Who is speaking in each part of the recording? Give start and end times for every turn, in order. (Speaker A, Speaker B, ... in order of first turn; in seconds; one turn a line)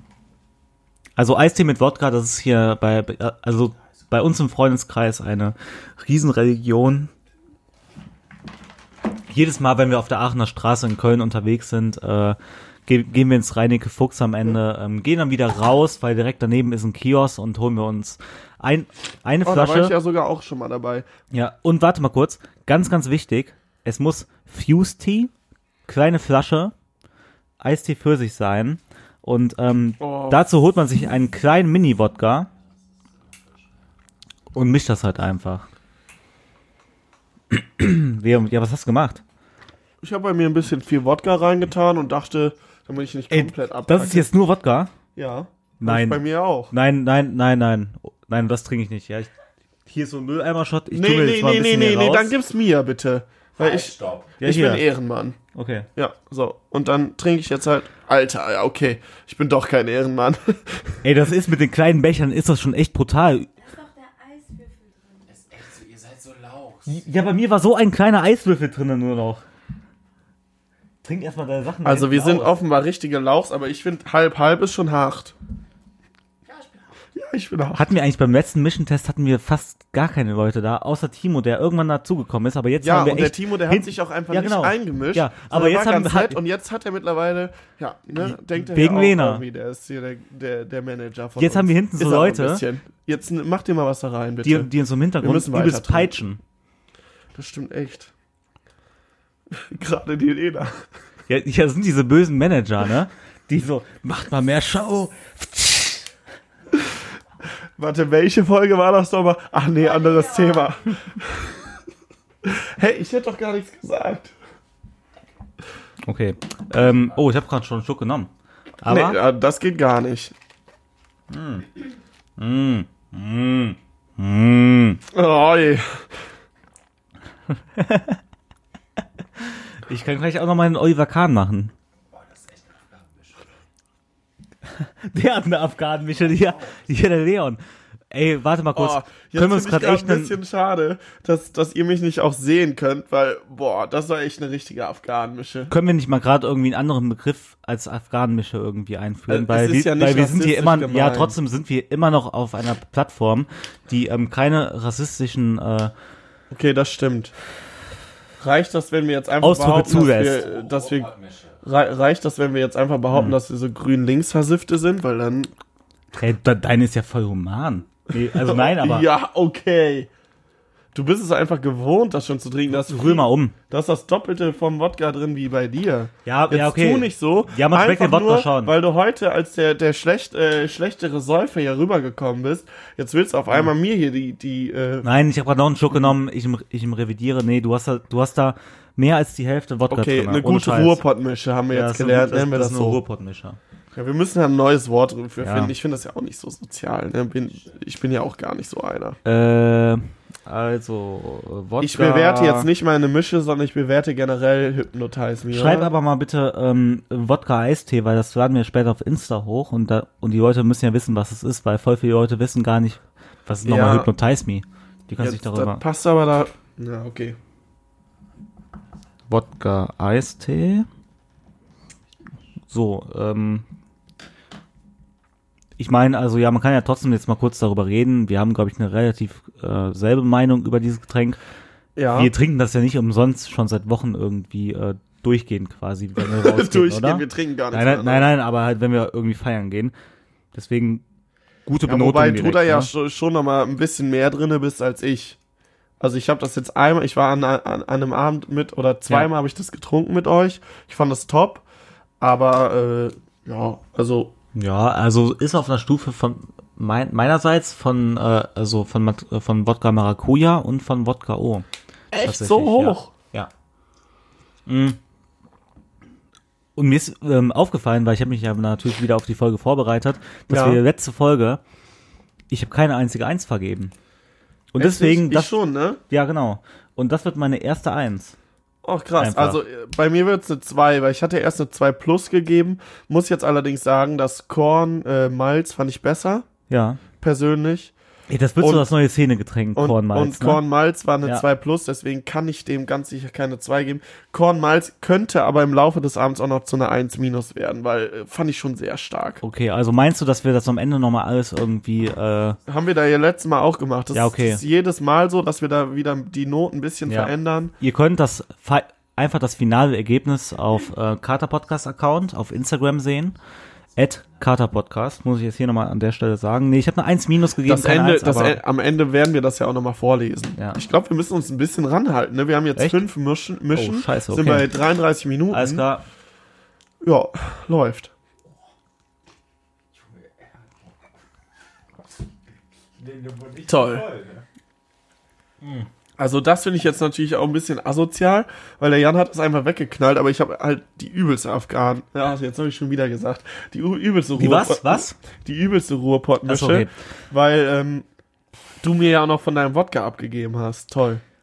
Speaker A: 1.1-7.1
Speaker A: 9.3-19.9
Speaker B: 19.4-21.1
Speaker A: 21.3-25.3
Speaker A: 25.9-26.7
Speaker A: 27.6-32.5
Speaker B: 30.0-30.4
Speaker C: 32.6-33.9
Speaker A: 34.5-35.7
Speaker A: 37.5-39.2
Speaker B: 40.0-44.3
Speaker A: 43.3-44.9
Speaker B: 45.1-46.7
Speaker A: 45.8-49.3
Speaker A: 49.9-52.3
Speaker B: 50.9-55.4
Speaker C: 53.6-54.4
Speaker A: 54.4-54.8
Speaker A: 55.5-55.9
Speaker B: 56.0-61.0
Speaker A: 61.0-63.5
Speaker D: 63.6-65.4
Speaker C: 65.3-67.0
Speaker A: 66.8-69.4
Speaker A: 71.0-72.6
Speaker B: 71.8-75.3
Speaker C: 76.5-76.9
Speaker B: 77.1-77.9
Speaker A: 77.7-86.4
Speaker B: 82.8-94.7
Speaker A: 88.2-89.4
Speaker A: 91.4-92.6
Speaker A: 94.4-96.4
Speaker B: 95.2-96.2
Speaker B: 97.3-98.1
Speaker B: 99.5-100.8
Speaker A: 101.3-106.1
Speaker B: 107.8-111.7
Speaker D: 110.0-110.8
Speaker B: 112.4-114.3
Speaker A: 116.0-118.3
Speaker A: 118.8-119.2
Speaker B: 118.8-120.3
Speaker A: 121.3-121.7
Speaker A: 122.4-125.0
Speaker B: 125.1-126.1
Speaker A: 127.8-128.2
Speaker A: 129.4-131.7
Speaker C: 132.0-133.5
Speaker A: 134.8-137.6
Speaker C: 136.1-136.9
Speaker A: 138.1-140.4
Speaker B: 138.7-145.7
Speaker A: 145.7-155.9
Speaker B: 149.3-151.3
Speaker B: 156.5-157.3
Speaker B: 158.4-165.5
Speaker A: 159.4-160.4
Speaker C: 160.3-161.6
Speaker A: 166.2-169.1
Speaker B: 168.3-170.1
Speaker B: 170.9-185.1
Speaker A: 172.7-173.5
Speaker A: 176.2-178.7
Speaker A: 185.0-191.0
Speaker B: 189.9-193.0
Speaker A: 191.7-193.6
Speaker B: 193.9-199.2
Speaker A: 195.4-195.7
Speaker A: 199.2-202.7
Speaker B: 201.8-205.9
Speaker A: 205.5-215.8
Speaker B: 213.6-214.1
Speaker B: 215.2-217.4
Speaker A: 219.3-220.9
Speaker A: 222.7-223.6
Speaker A: 225.8-231.4
Speaker B: 231.9-232.3
Speaker A: 232.1-239.9
Speaker B: 236.2-238.3
Speaker A: 240.5-241.0
Speaker A: 241.7-242.9
Speaker B: 241.8-245.4
Speaker B: 246.0-251.6
Speaker B: 252.2-254.3
Speaker A: 254.5-261.6
Speaker B: 262.1-263.1
Speaker A: 262.2-263.5
Speaker A: 264.7-265.0
Speaker A: 266.8-271.6
Speaker B: 270.5-270.8
Speaker A: 272.5-273.9
Speaker A: 274.7-275.5
Speaker B: 274.8-276.0
Speaker A: 276.1-278.3
Speaker B: 278.8-286.5
Speaker A: 279.2-279.6
Speaker A: 286.7-287.0
Speaker B: 287.2-287.9
Speaker A: 288.3-290.6
Speaker B: 288.6-288.9
Speaker B: 289.7-299.4
Speaker A: 299.4-302.6
Speaker B: 302.7-307.7
Speaker A: 304.1-304.6
Speaker A: 307.1-313.4
Speaker A: 313.9-318.6
Speaker B: 317.6-325.8
Speaker A: 322.8-323.0
Speaker A: 323.7-324.7
Speaker A: 325.5-326.0
Speaker B: 327.0-328.1
Speaker C: 329.9-330.9
Speaker C: 333.0-334.4
Speaker B: 333.7-334.1
Speaker B: 336.2-348.1
Speaker A: 344.4-345.1
Speaker A: 346.5-346.9
Speaker B: 348.8-351.2